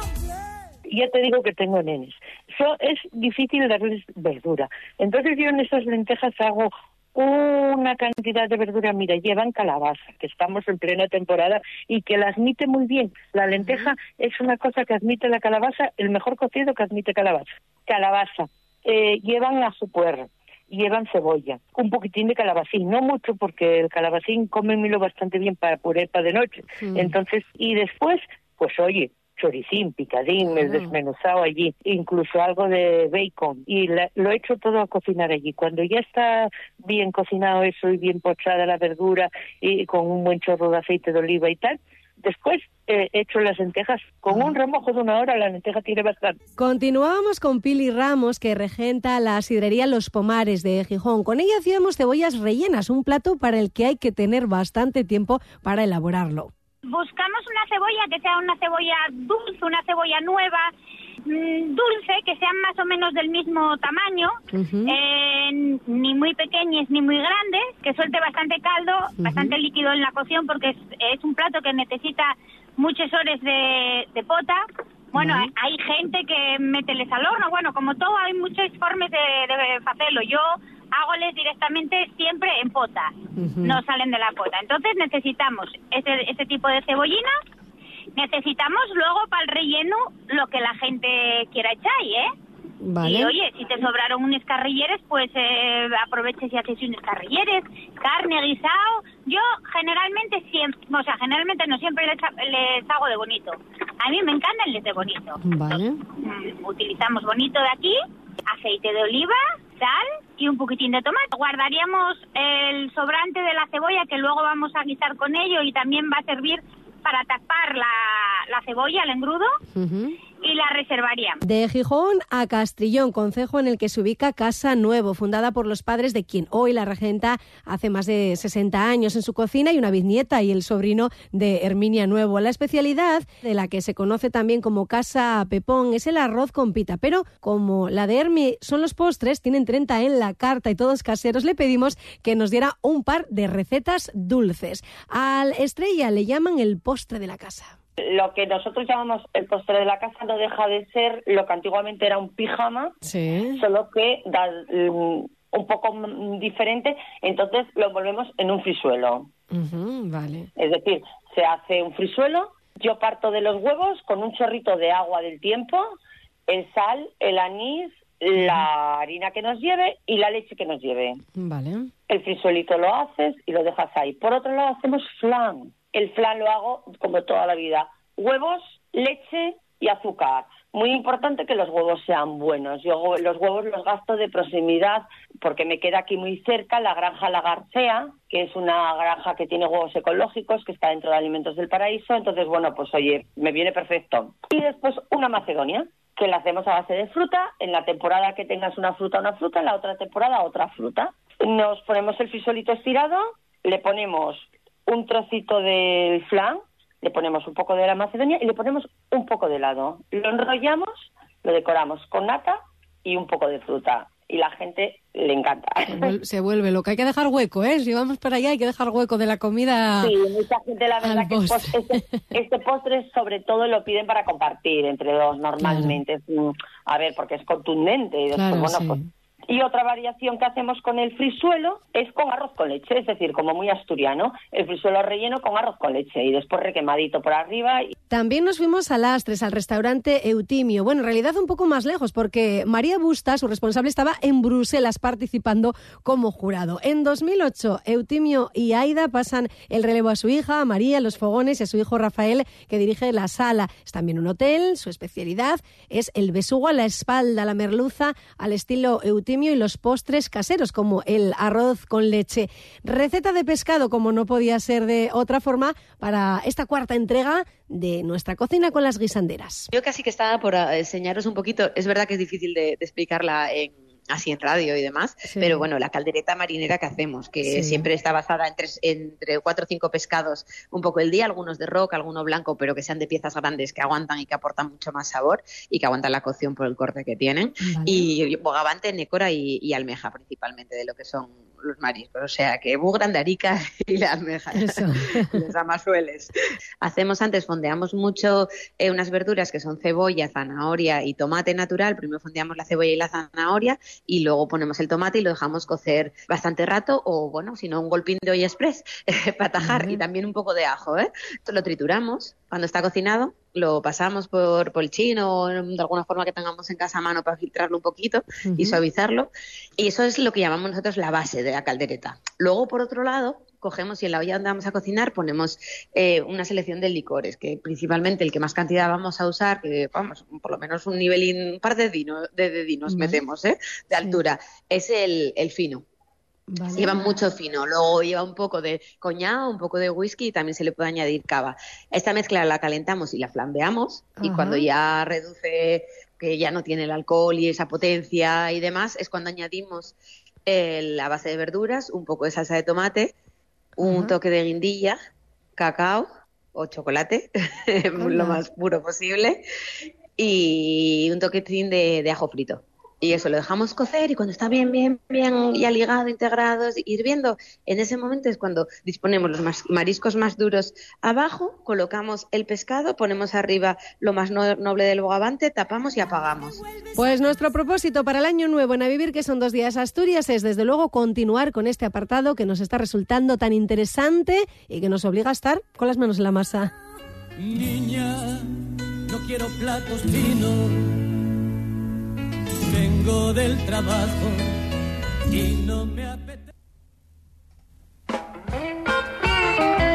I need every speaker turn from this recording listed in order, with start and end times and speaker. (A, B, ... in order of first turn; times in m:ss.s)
0:00.9-0:46.4 A
0:26.8-0:27.1 B
0:46.6-0:56.5 B
0:56.8-1:00.7 C
1:01.2-1:27.3 C
1:04.5-1:05.0 B
1:09.2-1:09.6 B
1:15.2-1:15.5 B
1:23.4-1:23.8 B
1:28.1-1:32.3 C
1:32.8-1:33.3 B
1:33.0-1:59.5 C
1:45.4-1:46.0 B
1:59.7-2:00.2 B
2:00.4-2:01.4 C
2:01.4-2:27.7 B
2:28.0-2:33.0 D
2:33.0-2:33.6 B
2:33.5-2:39.3 D
2:39.5-2:40.5 B
2:40.6-2:45.9 D
2:46.5-2:51.2 D
2:51.4-2:51.9 B
2:52.1-3:36.1 D
3:35.8-3:40.1 B
3:40.0-3:49.0 D
3:41.0-3:42.2 B
3:45.6-3:46.0 B
3:48.3-3:49.1 B
3:49.5-3:57.9 D
3:58.1-4:29.7 B
4:29.7-5:35.8 E
4:35.2-4:35.6 B
4:37.4-4:37.8 B
4:47.6-4:48.1 B
4:54.5-4:55.3 B
5:09.6-5:10.0 B
5:18.4-5:18.8 B
5:32.9-5:33.2 B
5:33.9-5:34.2 B
5:36.5-5:37.1 B
5:36.7-5:49.9 E
5:44.2-5:44.7 B
5:50.5-5:53.1 E
5:53.8-5:55.0 E
5:53.8-5:54.2 B
5:55.6-5:59.4 E
5:58.0-5:58.4 B
6:00.2-6:16.6 E
6:16.9-6:26.7 B
6:27.4-6:28.5 F
6:29.1-6:30.8 F
6:32.6-6:34.5 F
6:35.3-6:36.5 F